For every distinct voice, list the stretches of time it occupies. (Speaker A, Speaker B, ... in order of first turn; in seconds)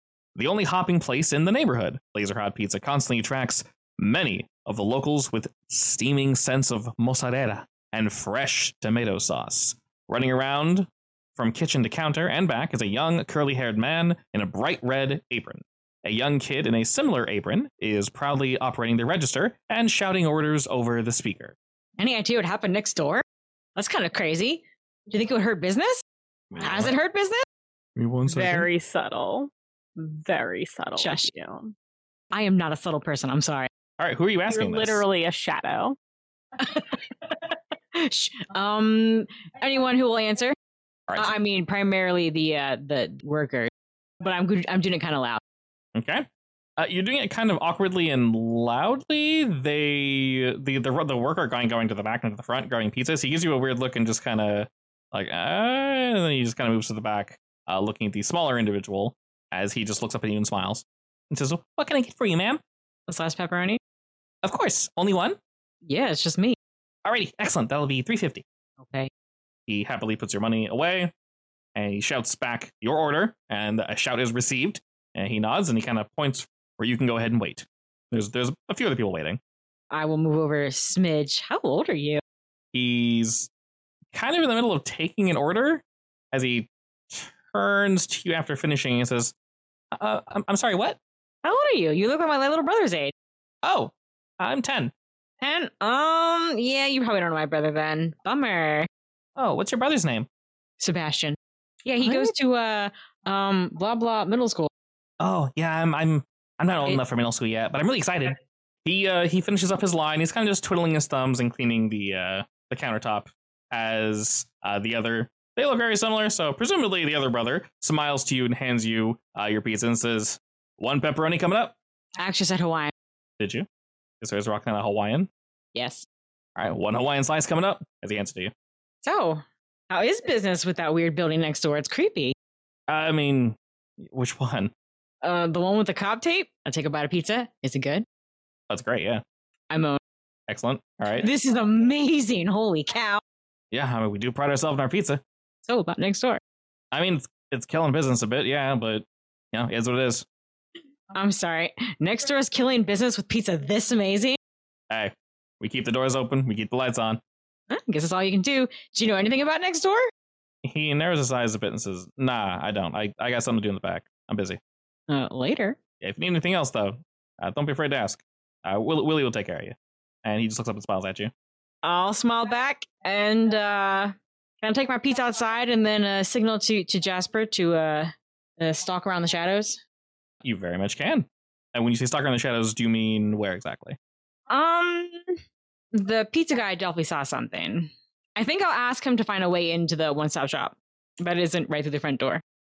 Speaker A: 0.3-21.6, 26.5-26.9, 27.9-28.7, 34.0-35.0, 45.9-46.3, 46.8-62.6, 64.4-65.4, 67.0-68.4, 69.7-71.1, 71.7-79.4, 82.7-83.5, 84.1-89.3, 89.9-91.0, 93.6-94.9, 99.3-100.3, 105.2-121.8, 123.4-123.7, 124.2-125.3, 126.5-128.5, 132.9-134.7, 138.7-139.2, 140.5-141.3, 143.7-145.2, 146.9-150.2, 154.9-157.2, 160.6-164.6, 166.0-171.3, 180.4-184.0
Speaker B: 22.0-23.2, 23.8-26.0, 26.6-27.4, 31.0-31.3, 32.3-33.7, 36.6-40.5, 41.1-43.7, 44.2-45.4, 63.1-63.8, 65.8-66.5, 68.8-69.1, 79.9-82.2, 91.4-93.1, 95.4-98.9, 100.8-104.7, 122.2-122.9, 125.7-126.0, 129.0-132.3, 135.2-138.0, 139.7-140.0, 141.2-143.2, 145.7-146.4, 151.1-154.4, 157.7-160.1, 165.1-165.8, 171.8-179.8, 184.5-185.3, 185.9-192.4
Speaker C: 28.3-31.7, 34.5-36.0